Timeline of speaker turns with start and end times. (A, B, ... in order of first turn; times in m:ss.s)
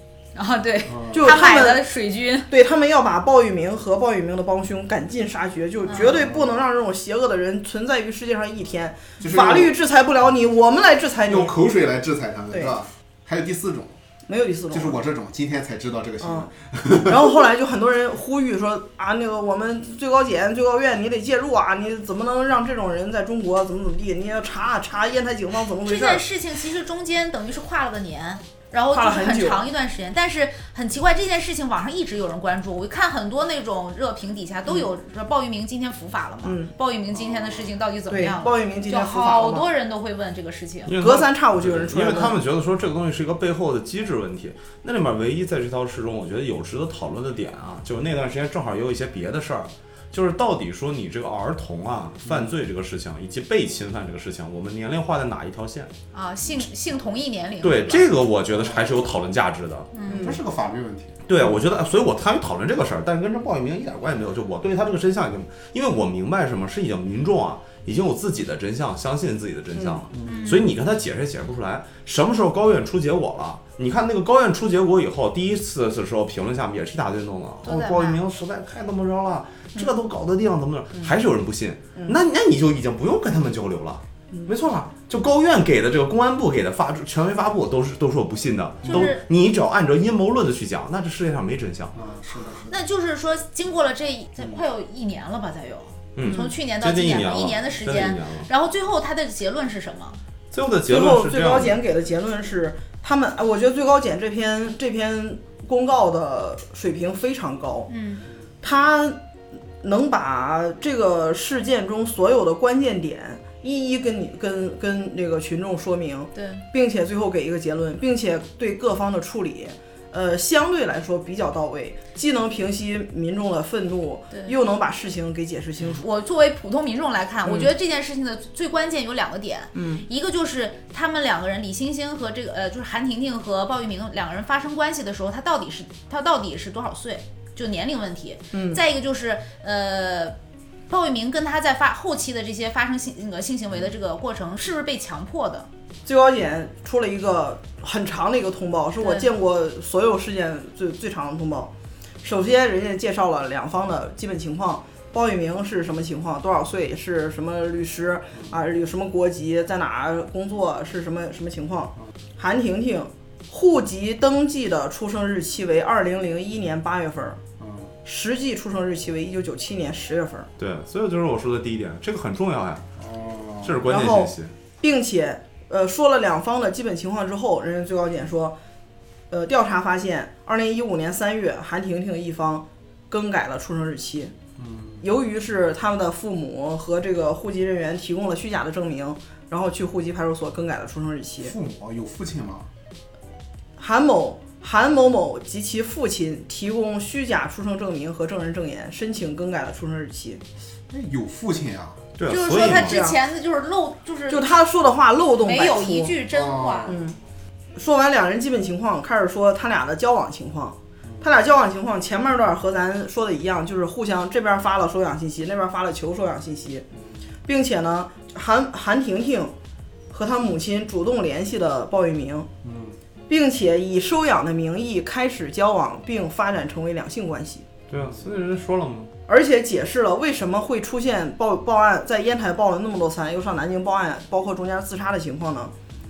0:00.3-0:02.5 A
0:00.9-0:01.3 B
0:01.1-0:01.8 C
0:02.5-0:11.5 C
0:05.9-0:06.2 A
0:06.0-0:06.5 B
0:09.2-0:09.7 B
0:11.3-0:14.0 B
0:14.3-0:15.0 C
0:14.7-0:17.3 B
0:16.2-0:16.5 C
0:17.0-0:26.2 C
0:25.8-0:41.0 A
0:28.9-0:29.6 C
0:36.4-0:36.7 C
0:37.1-0:37.7 B
0:38.1-0:39.7 C
0:40.8-0:55.9 D
0:41.0-0:42.4 C
0:56.1-0:58.1 A
0:57.6-0:59.9 D
0:58.6-0:58.9 B
0:59.9-1:00.3 A
1:00.1-1:00.4 C
1:00.1-1:01.2 B
1:01.2-1:32.0 D
1:09.8-1:10.0 C
1:10.1-1:10.5 B
1:10.2-1:10.7 A
1:17.6-1:18.2 A
1:28.8-1:29.2 A
1:31.9-1:32.8 B
1:32.7-1:40.2 A
1:36.2-1:38.5 D
1:40.5-1:41.8 D
1:40.9-1:47.9 C
1:47.9-1:48.2 A
1:48.6-1:49.2 C
1:49.8-2:06.0 C
1:56.3-1:56.6 A
2:04.3-2:04.6 A
2:05.8-2:20.4 A
2:07.4-2:07.7 C
2:09.7-2:10.0 C
2:18.5-2:18.8 C
2:20.9-2:25.7 A
2:26.0-2:31.7 C
2:29.0-2:29.3 A
2:32.2-2:47.4 C
2:47.6-2:47.9 B
2:48.0-2:50.5 C
2:50.6-2:52.9 D
2:53.0-2:53.8 B
2:53.6-2:54.5 D
2:53.8-2:58.6 C
2:59.3-3:04.3 C
3:04.6-3:05.0 B
3:05.0-3:11.5 C
3:11.4-3:12.7 B
3:13.8-3:20.4 C
3:20.9-3:22.0 B
3:22.2-3:23.0 D
3:22.3-3:24.6 A
3:22.3-3:23.2 C
3:24.3-3:26.2 C
3:25.4-3:27.0 A
3:26.3-3:27.0 B
3:26.9-3:27.2 C
3:27.8-3:36.8 C
3:37.4-3:39.5 C
3:40.1-3:42.5 C
3:42.6-3:43.0 B
3:43.3-3:47.6 C
3:47.9-3:49.1 D
3:49.3-3:55.7 C